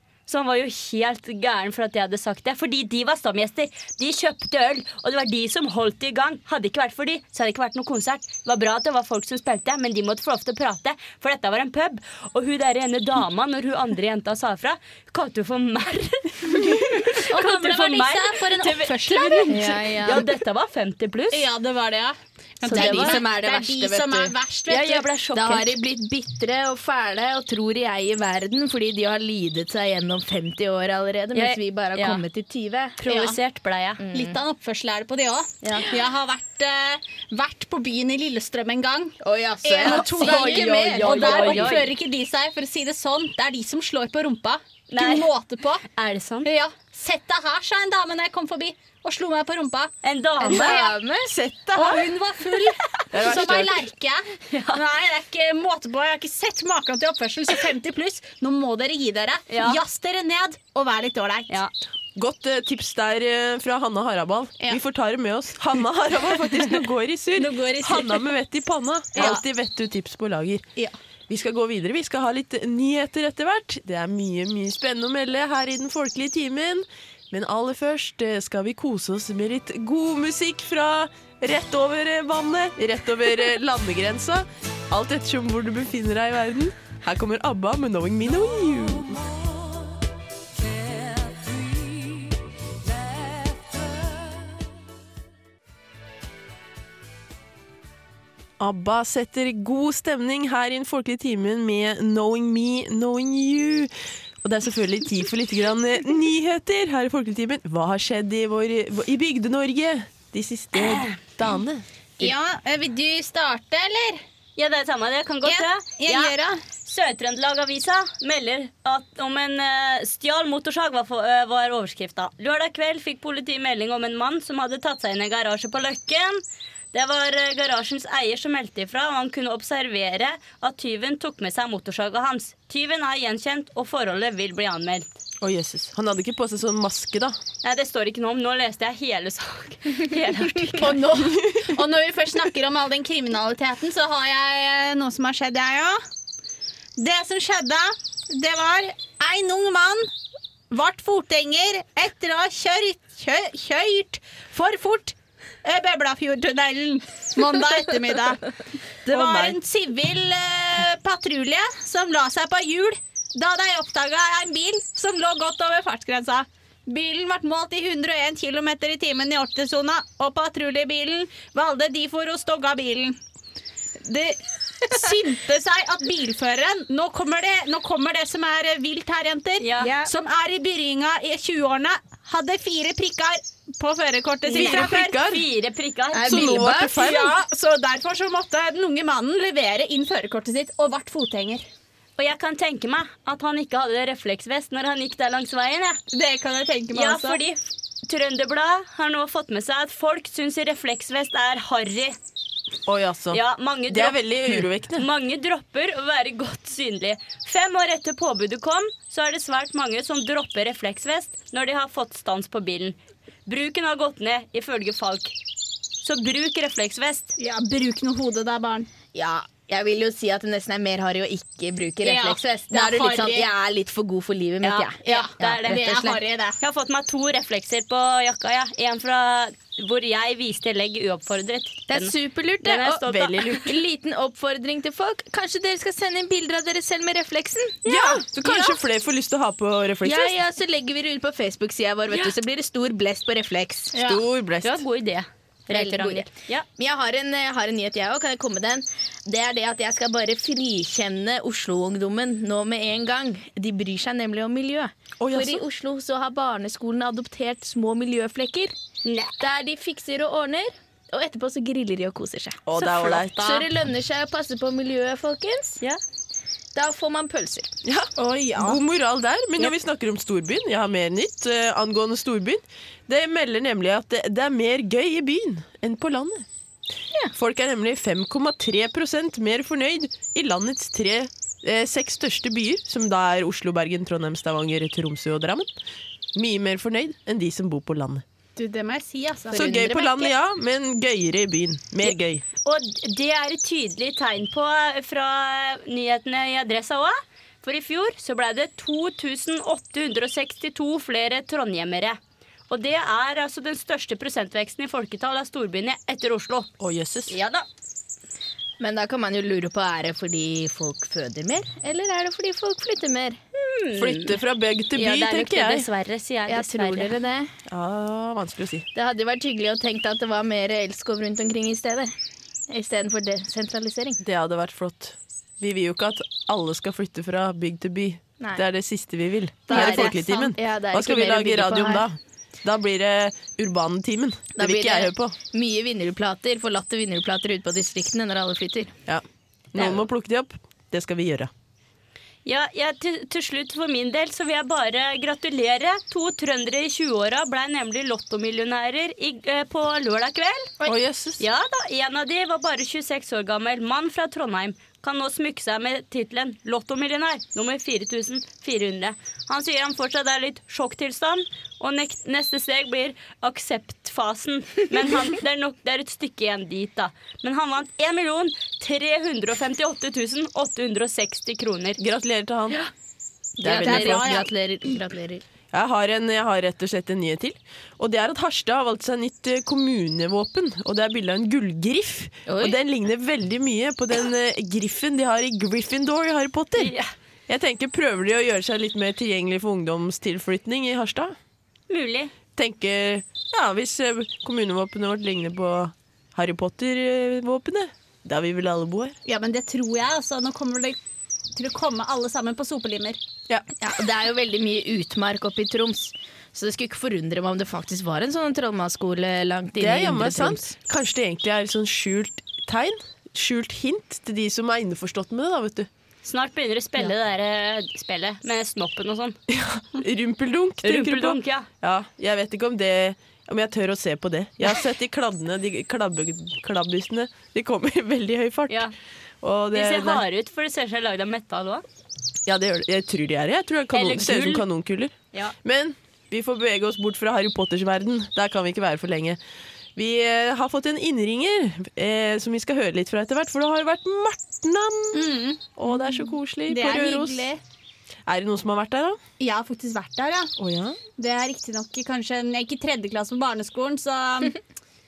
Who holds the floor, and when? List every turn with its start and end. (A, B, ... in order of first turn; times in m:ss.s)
0:00.3-0:21.5 A
0:17.2-0:20.3 B
0:19.5-0:20.3 C
0:21.3-0:25.1 B
0:22.6-0:23.2 A
0:22.6-0:24.4 C
0:24.7-0:25.8 A
0:25.3-0:33.0 C
0:31.3-0:32.2 A
0:33.0-0:34.0 A
0:33.1-0:33.4 B
0:34.0-0:34.4 C
0:34.1-0:45.8 B
0:35.6-0:35.9 A
0:39.2-0:41.9 C
0:39.8-0:41.9 A
0:44.9-0:45.3 A
0:46.0-0:46.5 A
0:46.4-0:51.0 B
0:50.0-0:50.8 A
0:50.4-0:51.3 C
0:51.2-0:52.1 D
0:51.7-1:01.6 B
0:53.1-0:53.8 D
0:54.5-0:54.8 A
0:59.5-0:59.8 A
1:02.2-1:10.6 D
1:07.4-1:08.3 B
1:09.2-1:09.4 B
1:11.3-1:29.4 D
1:38.6-1:52.3 D
1:50.8-1:51.2 A
1:52.2-1:54.2 B
1:54.6-2:15.1 A
1:55.4-1:56.6 B
2:15.4-2:17.4 D
2:17.6-2:21.0 A
2:20.7-2:26.0 B
2:27.0-2:30.1 B
2:30.7-2:38.5 B
2:39.0-2:53.2 B
2:39.1-2:39.6 D
2:54.0-3:05.2 B
2:59.6-3:00.0 A
2:59.8-3:00.1 C
3:04.5-3:05.5 D
3:04.6-3:06.5 A
3:06.1-3:06.9 C
3:06.2-3:07.4 D
3:06.3-3:11.6 B
3:12.2-3:16.0 A
3:16.1-3:17.4 B
3:16.9-3:22.2 A
3:22.9-3:25.1 D
3:23.3-3:35.3 A
3:36.0-3:37.3 A
3:37.4-3:38.9 B
3:39.2-3:46.2 C
3:42.0-3:43.5 B
3:44.6-3:45.8 A
3:45.0-3:46.6 B
3:46.6-3:53.7 A
3:51.9-3:53.0 C
3:53.1-3:53.7 D
3:53.6-3:57.8 C
3:57.8-4:00.4 D
3:58.4-3:58.7 B
4:00.0-4:04.0 C
4:03.9-4:04.2 B
4:04.0-4:04.8 D
4:04.6-4:06.7 A
4:05.7-4:18.7 C
4:15.2-4:15.6 D
4:19.0-4:19.4 A
4:19.4-4:25.8 C
4:22.7-4:23.7 D
4:26.8-4:27.7 C
4:27.8-4:36.5 D
4:28.2-4:28.8 B
4:37.4-4:45.7 D
4:46.4-4:48.2 D
4:48.6-4:50.3 B
4:49.5-4:52.4 D
4:52.6-5:06.7 A
5:06.8-5:07.4 D
5:07.3-5:07.7 A
5:08.8-5:13.4 C
5:13.6-5:14.4 A
5:14.0-5:15.9 D
5:14.9-5:17.2 A
5:16.5-5:17.5 C
5:17.7-5:18.9 D
5:18.9-5:22.1 C
5:22.7-5:24.2 C
5:24.2-5:35.4 D
5:29.7-5:32.0 C
5:29.7-5:30.5 B
5:34.6-5:38.9 C
5:39.1-5:41.5 D
5:42.4-5:50.7 A
5:50.8-5:51.4 D
5:51.4-6:12.0 A
6:12.0-6:12.8 D
6:13.6-6:15.4 C
6:13.6-6:14.4 D
6:13.8-6:14.5 B
6:15.7-6:26.9 D
6:22.5-6:22.8 C
6:26.8-6:27.1 A
6:27.5-6:31.4 D
6:31.9-6:32.3 A
6:32.6-6:39.2 D
6:39.2-6:41.0 B
6:41.6-6:43.2 B
6:43.8-6:50.7 C
6:49.8-6:55.9 D
6:56.2-6:59.4 A
6:59.5-7:08.9 D
7:00.8-7:01.7 A
7:09.4-7:10.2 D
7:09.7-7:11.8 A
7:12.5-7:19.4 D
7:13.9-7:14.6 A
7:20.0-7:27.5 D
7:25.1-7:25.7 B
7:26.7-7:27.6 B
7:28.3-7:29.2 D
7:29.4-7:30.5 B
7:30.6-7:31.0 D
7:31.2-7:34.6 B